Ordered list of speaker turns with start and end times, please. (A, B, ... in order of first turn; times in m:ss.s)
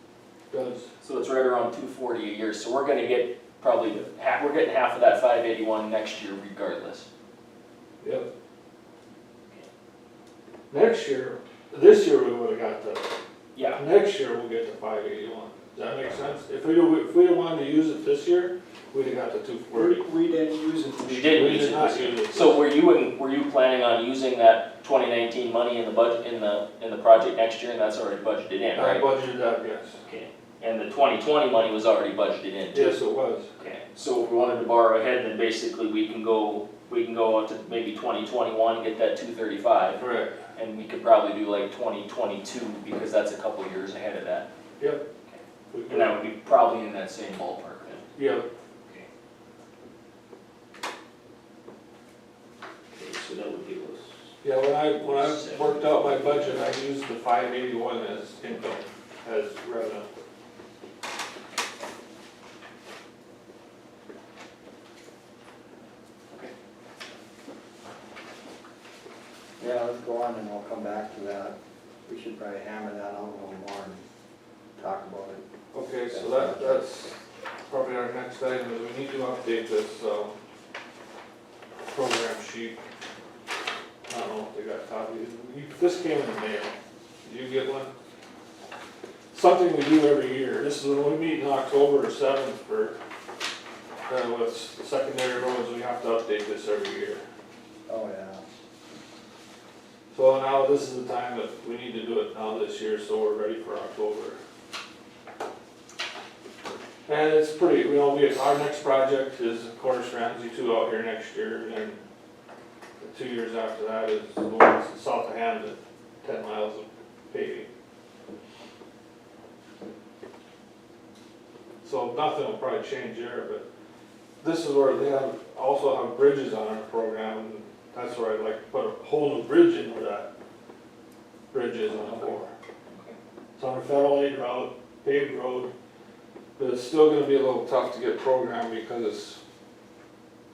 0:00.5-0:00.9 A
0:01.0-0:07.1 B
0:08.0-0:08.3 A
0:10.7-0:13.1 A
0:13.5-0:13.8 B
0:13.8-0:20.0 A
0:19.7-0:21.8 C
0:21.1-0:29.1 B
0:21.3-0:22.6 A
0:28.7-0:30.0 A
0:30.1-0:33.0 B
0:32.7-0:33.5 A
0:33.6-0:40.0 B
0:40.0-0:40.4 A
0:40.5-0:44.5 B
0:44.8-0:45.0 A
0:45.3-0:48.1 B
0:45.7-0:46.2 A
0:48.1-0:48.4 A
0:52.9-0:54.1 B
0:54.4-1:00.1 A
0:55.0-0:56.7 B
1:09.6-1:14.0 D
1:14.8-1:15.4 D
1:15.7-1:20.4 A
1:16.1-1:16.8 D
1:21.9-1:22.8 A
1:24.1-1:27.9 A
1:29.3-1:33.0 A
1:34.0-1:37.2 A
1:37.9-1:38.4 D
1:40.1-1:44.4 A
1:47.1-1:52.0 A
1:53.0-1:57.7 A
2:01.8-2:03.6 A
2:04.4-2:10.3 A
2:11.5-2:12.5 A
2:12.0-2:13.2 B
2:13.6-2:15.7 A
2:16.6-2:19.4 A